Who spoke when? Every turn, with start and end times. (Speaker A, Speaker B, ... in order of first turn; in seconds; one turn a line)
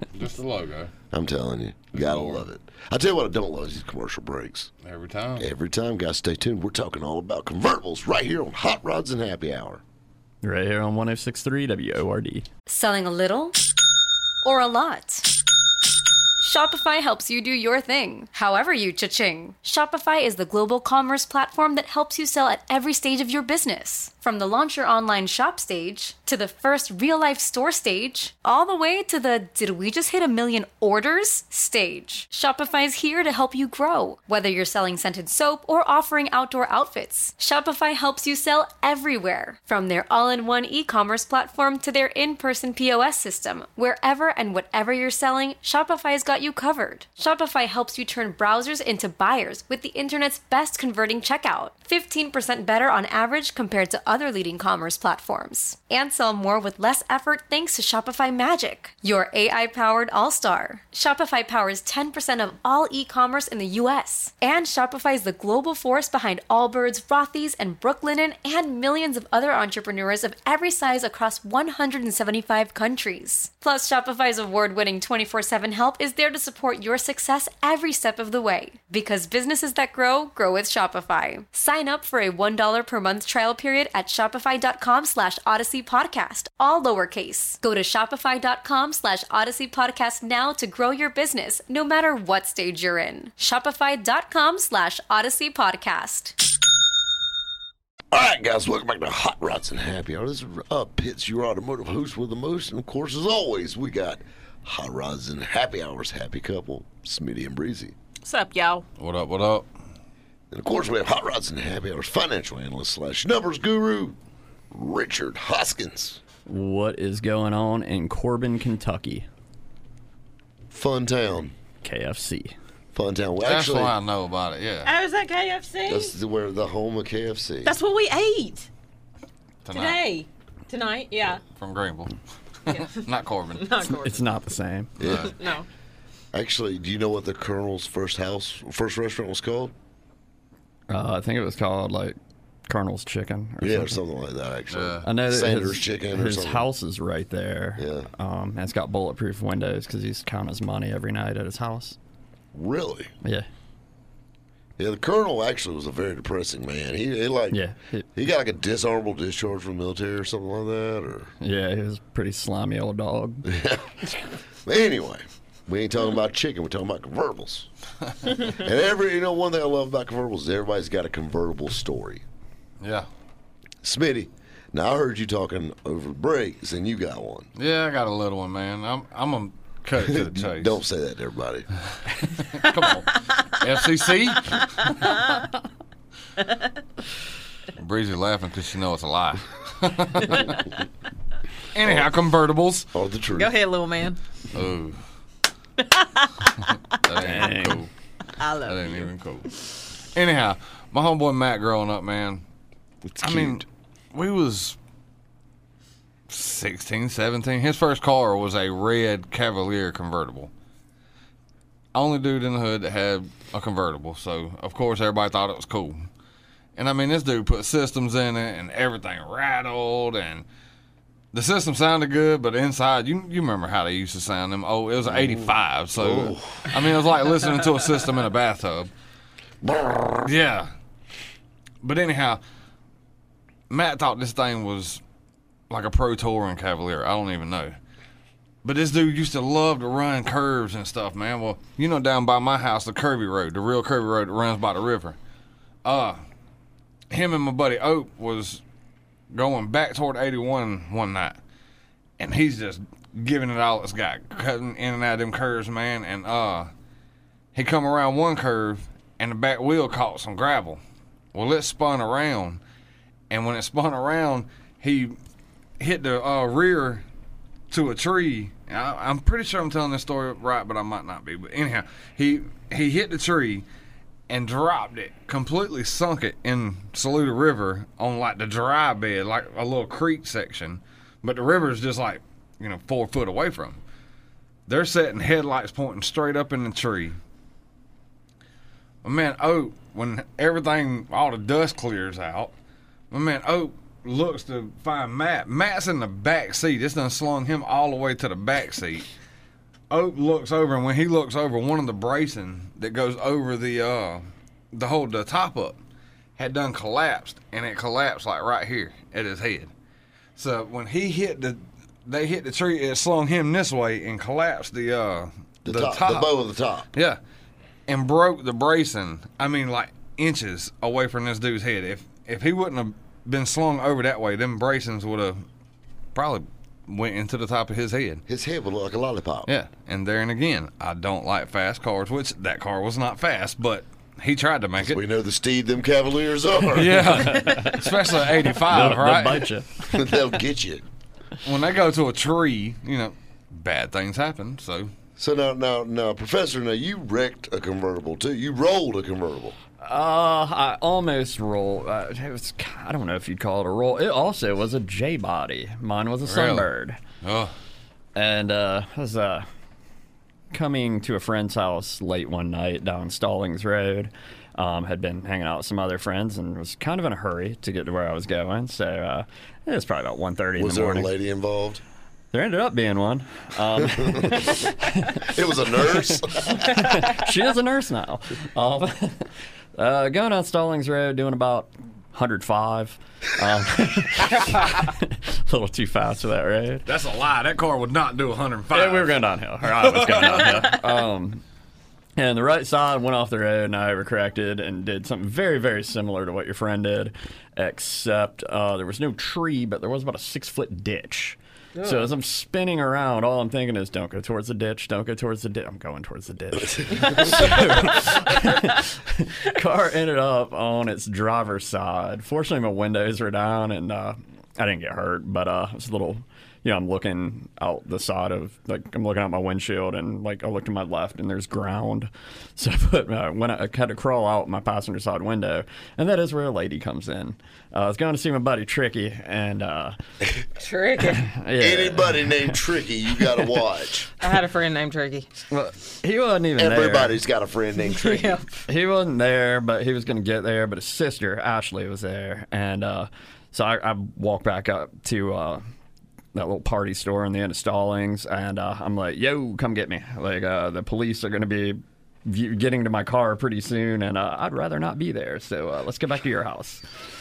Speaker A: 0.1-0.9
Speaker B: 1.1-4.7
Speaker A: 1.9-2.4
Speaker A: 4.8-5.5
Speaker B: 5.4-9.8
Speaker C: 10.4-12.5
Speaker D: 12.7-13.6
Speaker D: 14.4-15.3
Speaker D: 16.4-96.4
Speaker B: 98.1-108.0
Speaker E: 108.2-108.8
Speaker A: 109.0-109.7
Speaker B: 110.5-114.2
Speaker B: 114.7-116.2
Speaker C: 116.5-119.3
Speaker B: 120.7-121.5
Speaker C: 121.8-122.5
Speaker B: 122.9-123.9
Speaker A: 123.4-124.9
Speaker E: 124.8-126.1
Speaker B: 125.8-127.8
Speaker E: 127.6-128.7
Speaker A: 129.6-130.0
Speaker E: 129.7-131.4
Speaker A: 131.5-133.8
Speaker E: 132.7-134.2
Speaker C: 133.9-134.9
Speaker B: 135.0-135.3
Speaker A: 135.0-135.3
Speaker E: 135.2-135.7
Speaker B: 136.3-139.7
Speaker C: 140.9-144.0
Speaker B: 143.6-146.7
Speaker A: 144.7-145.1
Speaker C: 145.0-152.0
Speaker B: 147.8-148.1
Speaker B: 152.5-153.1
Speaker B: 154.8-157.6
Speaker C: 157.5-158.1
Speaker B: 158.1-161.3
Speaker C: 161.4-163.5
Speaker B: 163.4-163.9
Speaker B: 164.6-167.7
Speaker B: 168.4-172.2
Speaker A: 172.8-173.1
Speaker B: 173.8-177.5
Speaker A: 177.6-180.8
Speaker B: 180.0-181.7
Speaker A: 182.3-185.1
Speaker E: 184.8-185.4
Speaker A: 187.8-190.6
Speaker A: 191.7-192.9
Speaker B: 191.8-192.1
Speaker B: 192.9-193.6
Speaker E: 193.3-194.2
Speaker A: 194.5-195.0
Speaker E: 195.8-196.8
Speaker A: 197.0-197.9
Speaker C: 197.2-197.8
Speaker E: 198.4-199.1
Speaker A: 198.6-199.6
Speaker A: 200.1-202.4
Speaker B: 203.0-203.6
Speaker A: 203.2-204.8
Speaker A: 206.3-210.5
Speaker A: 211.9-216.0
Speaker A: 216.8-220.4
Speaker A: 221.3-228.9
Speaker B: 225.1-226.8
Speaker B: 229.6-230.3
Speaker A: 230.2-230.7
Speaker A: 231.8-232.4
Speaker A: 233.7-235.0
Speaker A: 235.7-237.8
Speaker A: 238.6-245.2
Speaker A: 245.8-246.2
Speaker A: 247.1-248.6
Speaker A: 249.3-251.4
Speaker A: 252.2-256.7
Speaker A: 257.5-260.8
Speaker A: 261.3-262.6
Speaker A: 263.3-265.1
Speaker A: 265.8-267.0
Speaker A: 267.7-273.6
Speaker A: 274.3-283.8
Speaker A: 284.7-287.2
Speaker A: 289.0-292.5
Speaker A: 293.1-299.1
Speaker A: 299.9-305.8
Speaker A: 306.4-309.7
Speaker A: 310.4-316.4
Speaker B: 315.6-316.9
Speaker A: 317.9-325.4
Speaker A: 326.1-328.2
Speaker B: 328.3-329.5
Speaker A: 329.5-335.0
Speaker B: 334.8-337.4
Speaker A: 336.7-339.5
Speaker C: 336.9-337.9
Speaker C: 338.6-340.0
Speaker B: 339.9-340.8
Speaker A: 341.4-344.9
Speaker B: 345.2-349.6
Speaker C: 349.8-357.0
Speaker A: 356.2-356.7
Speaker A: 357.2-357.5
Speaker C: 358.1-359.5
Speaker C: 360.5-371.1
Speaker B: 370.6-371.8
Speaker C: 372.3-375.2
Speaker B: 373.8-374.6
Speaker B: 375.2-376.8
Speaker C: 376.5-386.9
Speaker A: 386.9-390.8
Speaker C: 388.7-391.4
Speaker C: 392.2-430.0
Speaker E: 401.8-402.1
Speaker E: 430.6-431.3
Speaker C: 431.2-432.6
Speaker B: 431.6-434.1
Speaker E: 434.2-435.3
Speaker C: 435.5-437.2
Speaker B: 436.6-438.4
Speaker E: 437.8-438.6
Speaker C: 438.7-445.6
Speaker C: 446.3-456.8